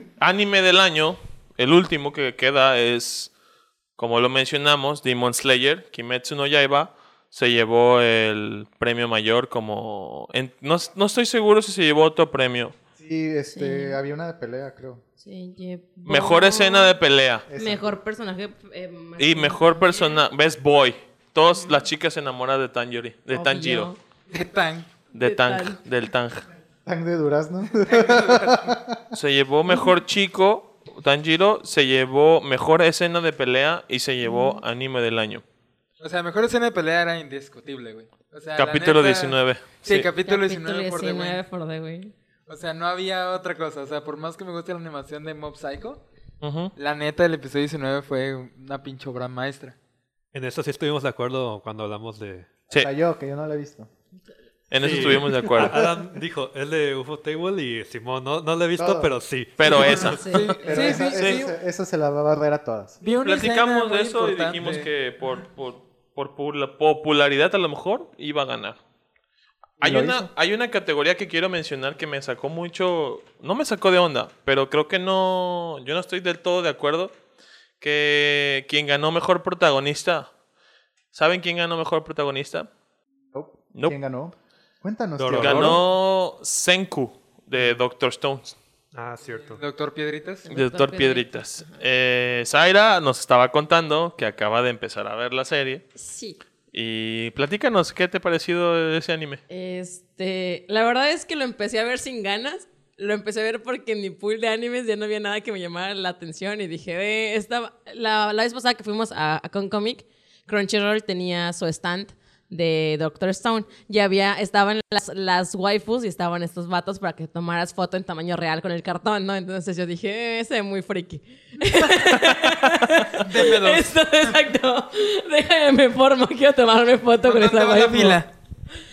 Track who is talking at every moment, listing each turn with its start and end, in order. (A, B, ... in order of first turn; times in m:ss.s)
0:00.2-0:03.3 A
0:04.0-0:12.7 A
0:13.0-0:15.0 B
0:13.5-0:14.0 C
0:15.2-0:17.0 C
0:16.1-0:17.5 A
0:17.5-0:17.8 B
0:17.6-0:20.1 C
0:19.2-0:23.9 A
0:23.3-0:24.0 C
0:24.3-0:24.9 D
0:25.1-0:26.4 A
0:25.2-0:25.8 C
0:26.8-0:29.0 B
0:27.8-0:28.8 D
0:29.1-0:35.4 A
0:34.2-0:34.6 C
0:36.0-0:41.4 D
0:38.6-0:40.1 A
0:40.2-0:42.1 C
0:42.5-0:46.0 D
0:46.4-0:46.7 A
0:46.8-0:49.8 D
0:50.3-0:52.5 E
0:52.7-0:53.9 B
0:54.7-0:55.9 A
0:54.8-1:00.2 E
0:58.8-0:59.1 B
0:59.6-1:01.4 A
0:59.7-1:01.5 D
1:00.2-1:00.5 C
1:00.6-1:03.0 B
1:03.0-1:04.9 D
1:03.2-1:08.8 A
1:09.8-1:17.1 A
1:09.8-1:10.3 B
1:17.8-1:20.3 A
1:21.1-1:22.7 A
1:23.3-1:25.8 B
1:25.2-1:25.8 E
1:25.4-1:28.6 A
1:28.9-1:29.6 E
1:29.2-1:30.4 D
1:30.4-1:31.8 C
1:30.5-1:35.8 A
1:36.0-1:36.4 C
1:36.7-1:39.4 A
1:39.5-2:08.2 C
2:03.1-2:04.3 D
2:07.2-2:08.3 D